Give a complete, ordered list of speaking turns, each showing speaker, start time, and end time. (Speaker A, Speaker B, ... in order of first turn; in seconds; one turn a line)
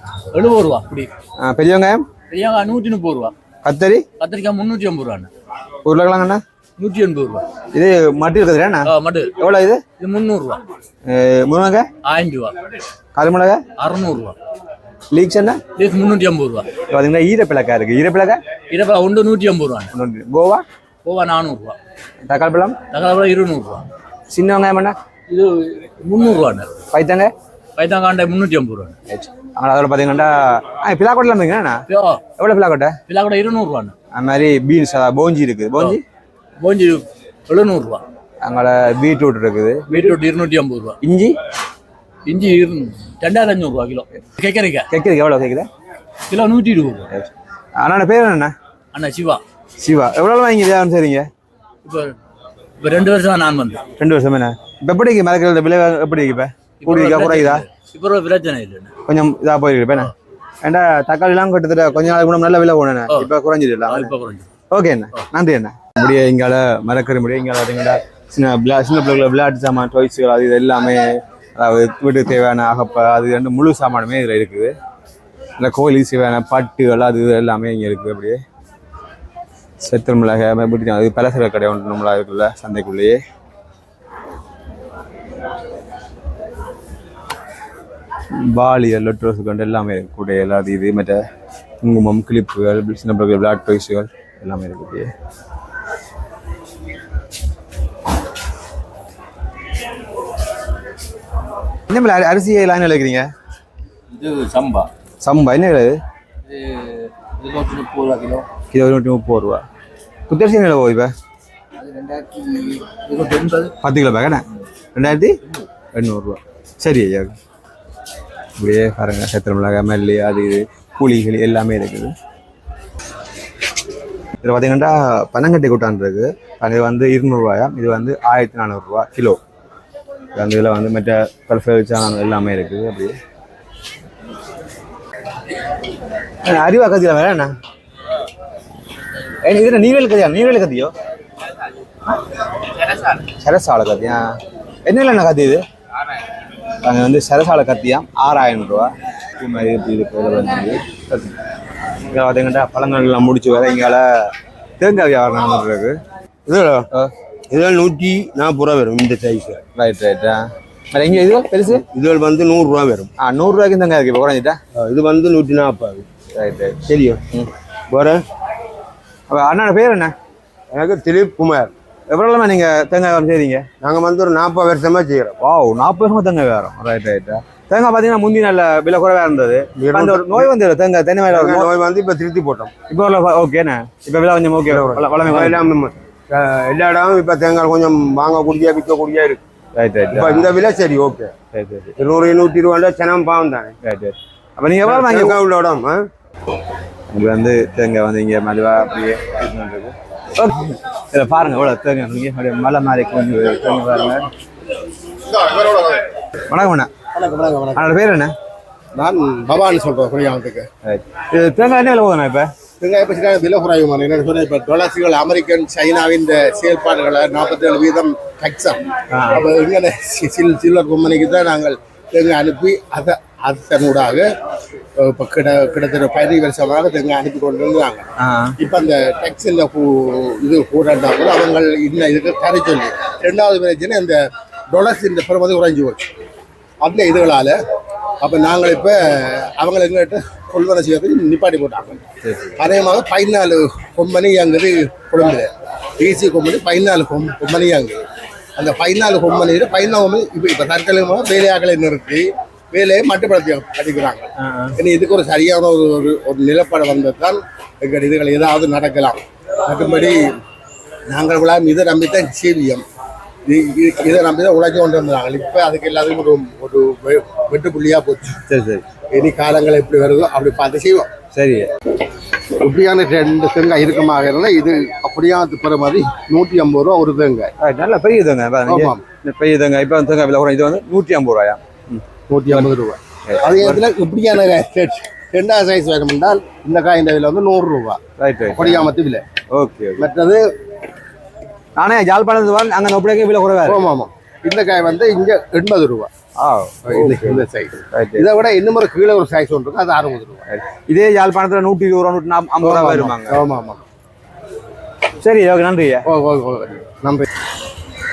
Speaker A: 0.3-1.1
Speaker B: 1.4-2.1
Speaker A: 2.3-3.3
Speaker B: 3.6-4.0
Speaker A: 4.2-5.3
Speaker B: 5.8-6.4
Speaker A: 6.8-7.4
Speaker B: 7.7-9.8
Speaker A: 8.9-9.3
Speaker A: 10.0-10.6
Speaker B: 11.1-11.9
Speaker A: 12.0-12.5
Speaker B: 13.1-13.6
Speaker A: 13.8-14.3
Speaker B: 15.1-15.6
Speaker A: 15.8-16.7
Speaker B: 16.9-18.4
Speaker A: 18.7-19.9
Speaker B: 19.9-20.6
Speaker A: 21.0-21.8
Speaker B: 22.3-22.8
Speaker A: 22.9-23.8
Speaker B: 24.3-25.0
Speaker A: 25.3-26.7
Speaker B: 26.9-27.3
Speaker A: 27.8-28.9
Speaker B: 29.1-31.8
Speaker A: 31.9-32.2
Speaker B: 32.4-33.0
Speaker A: 33.1-33.9
Speaker B: 34.1-36.0
Speaker A: 36.6-38.0
Speaker B: 38.4-40.2
Speaker A: 39.9-41.0
Speaker B: 41.0-41.4
Speaker A: 42.2-44.9
Speaker B: 44.9-45.7
Speaker A: 46.3-47.1
Speaker B: 47.1-48.5
Speaker A: 48.9-49.4
Speaker B: 49.8-51.3
Speaker A: 51.8-52.1
Speaker A: 52.8-53.8
Speaker B: 54.0-57.6
Speaker A: 56.8-58.9
Speaker B: 59.0-60.1
Speaker B: 60.6-64.1
Speaker A: 63.9-64.5
Speaker B: 64.7-74.7
Speaker B: 75.6-78.4
Speaker B: 79.8-83.2
Speaker B: 88.3-91.2
Speaker B: 91.8-95.1
Speaker B: 101.9-103.3
Speaker A: 104.2-104.8
Speaker B: 105.2-106.0
Speaker A: 107.3-108.4
Speaker B: 108.7-109.6
Speaker B: 110.3-111.1
Speaker A: 111.8-113.7
Speaker B: 113.8-114.4
Speaker B: 114.9-115.4
Speaker B: 115.9-117.3
Speaker B: 118.6-122.1
Speaker B: 124.4-129.4
Speaker B: 130.3-133.2
Speaker B: 136.4-137.5
Speaker B: 139.4-140.9
Speaker B: 143.3-144.2
Speaker B: 144.8-145.6
Speaker B: 146.8-151.3
Speaker B: 152.1-154.0
Speaker B: 154.8-156.0
Speaker C: 156.4-156.8
Speaker C: 157.5-159.6
Speaker B: 159.8-161.8
Speaker C: 161.8-163.1
Speaker B: 163.2-164.6
Speaker C: 164.8-166.1
Speaker B: 166.3-167.5
Speaker C: 166.8-167.2
Speaker C: 167.9-168.2
Speaker B: 169.3-170.1
Speaker C: 170.7-171.7
Speaker B: 172.1-173.6
Speaker C: 173.8-175.3
Speaker B: 175.4-181.7
Speaker C: 179.8-180.5
Speaker C: 181.3-182.7
Speaker B: 182.9-185.6
Speaker C: 184.7-189.4
Speaker B: 189.7-190.6
Speaker C: 190.1-191.3
Speaker B: 191.5-191.9
Speaker C: 192.0-193.7
Speaker B: 193.8-195.4
Speaker C: 194.8-196.0
Speaker B: 197.1-204.3
Speaker D: 205.3-206.0
Speaker B: 206.5-206.9
Speaker D: 207.1-207.9
Speaker B: 207.7-208.3
Speaker D: 208.9-210.7
Speaker B: 210.8-212.5
Speaker D: 212.8-224.3
Speaker B: 219.1-219.4
Speaker D: 225.0-228.1
Speaker B: 228.2-228.6
Speaker D: 228.6-236.1
Speaker D: 236.8-237.6
Speaker D: 238.2-242.0
Speaker B: 242.2-242.6
Speaker D: 242.6-248.0
Speaker D: 248.6-260.2
Speaker B: 254.4-254.8
Speaker D: 261.1-262.8
Speaker D: 263.4-268.4
Speaker B: 268.5-268.8
Speaker D: 269.1-271.1
Speaker B: 271.3-271.7
Speaker D: 272.6-277.5
Speaker B: 277.6-282.7
Speaker D: 278.7-279.0
Speaker D: 282.3-288.0
Speaker B: 283.3-283.8
Speaker B: 288.2-288.9
Speaker D: 288.5-289.2
Speaker B: 289.5-290.1
Speaker D: 290.0-290.4
Speaker B: 291.8-293.8
Speaker D: 293.6-296.1
Speaker B: 296.4-298.3
Speaker D: 296.9-300.4
Speaker B: 300.5-303.4
Speaker D: 302.6-303.8
Speaker B: 305.2-306.0
Speaker D: 306.1-307.3